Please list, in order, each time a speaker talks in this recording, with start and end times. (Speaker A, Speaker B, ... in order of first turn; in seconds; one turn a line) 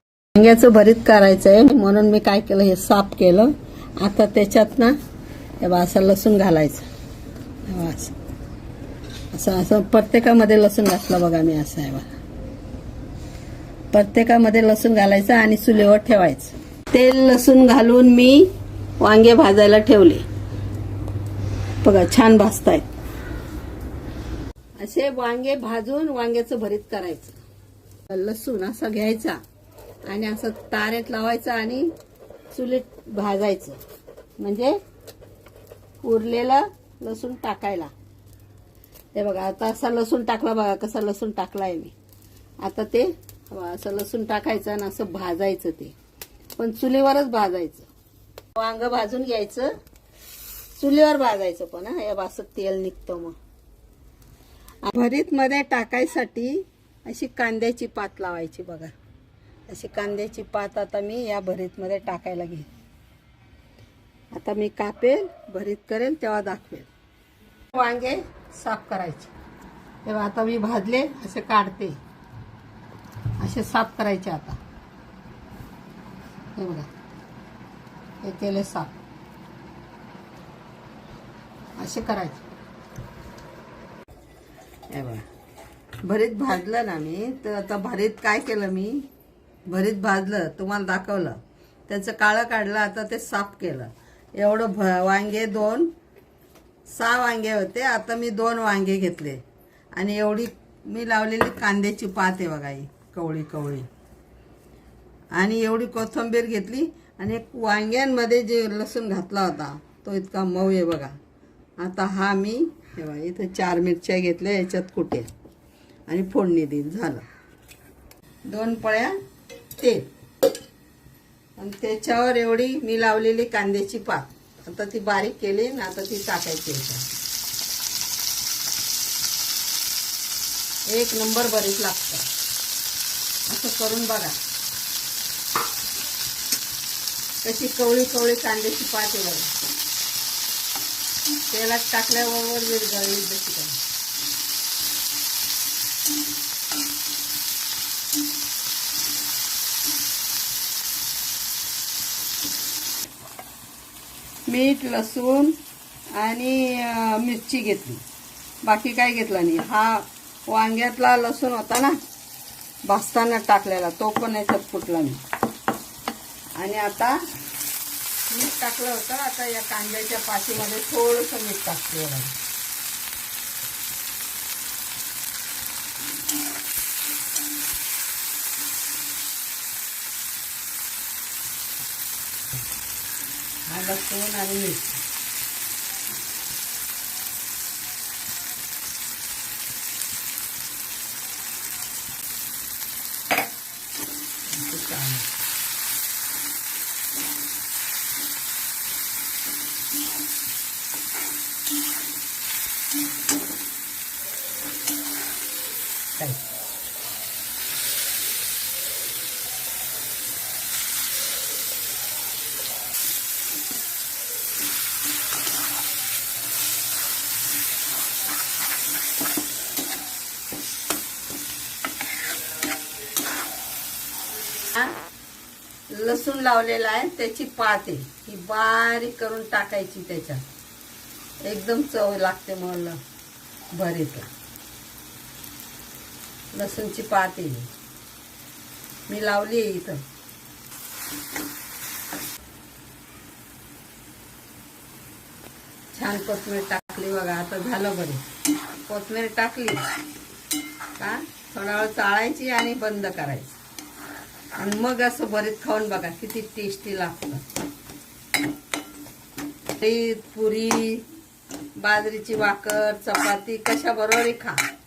Speaker A: 0.3-5.0
Speaker A: 5.6-6.8
Speaker A: 7.7-8.1
Speaker A: 9.3-12.1
Speaker A: 13.9-18.5
Speaker A: 19.0-20.2
Speaker A: 21.8-22.9
Speaker A: 24.8-27.4
Speaker A: 28.1-29.4
Speaker A: 30.1-31.9
Speaker A: 32.5-33.8
Speaker A: 34.4-34.8
Speaker A: 36.0-37.9
Speaker A: 39.1-41.9
Speaker A: 42.6-45.9
Speaker A: 46.6-47.9
Speaker A: 48.5-49.7
Speaker A: 50.8-53.3
Speaker A: 54.8-58.9
Speaker A: 59.7-62.7
Speaker A: 64.3-66.9
Speaker A: 67.7-69.3
Speaker A: 70.0-72.0
Speaker A: 73.4-74.6
Speaker A: 76.5-76.9
Speaker A: 78.2-78.9
Speaker A: 81.8-82.4
Speaker A: 84.9-85.2
Speaker A: 86.0-89.1
Speaker A: 89.7-95.9
Speaker A: 96.9-99.4
Speaker A: 100.0-103.9
Speaker A: 105.3-111.2
Speaker A: 111.8-115.3
Speaker A: 116.1-117.2
Speaker A: 118.5-119.2
Speaker A: 119.8-120.1
Speaker A: 121.6-127.0
Speaker A: 130.9-132.3
Speaker A: 133.5-134.4
Speaker A: 137.4-139.5
Speaker A: 141.5-143.8
Speaker A: 154.5-155.6
Speaker A: 156.2-158.0
Speaker A: 158.6-161.9
Speaker A: 162.8-165.2
Speaker A: 166.6-167.2
Speaker A: 168.3-172.3
Speaker A: 183.7-185.0
Speaker A: 194.5-195.3
Speaker A: 206.2-206.4
Speaker A: 224.6-225.0
Speaker A: 225.9-230.4
Speaker A: 231.4-233.0
Speaker A: 233.7-234.3
Speaker A: 236.5-237.7
Speaker A: 239.1-240.0
Speaker A: 245.9-248.2
Speaker A: 248.9-249.8
Speaker A: 251.0-253.6
Speaker A: 254.6-257.4
Speaker A: 259.8-261.1
Speaker A: 261.8-264.6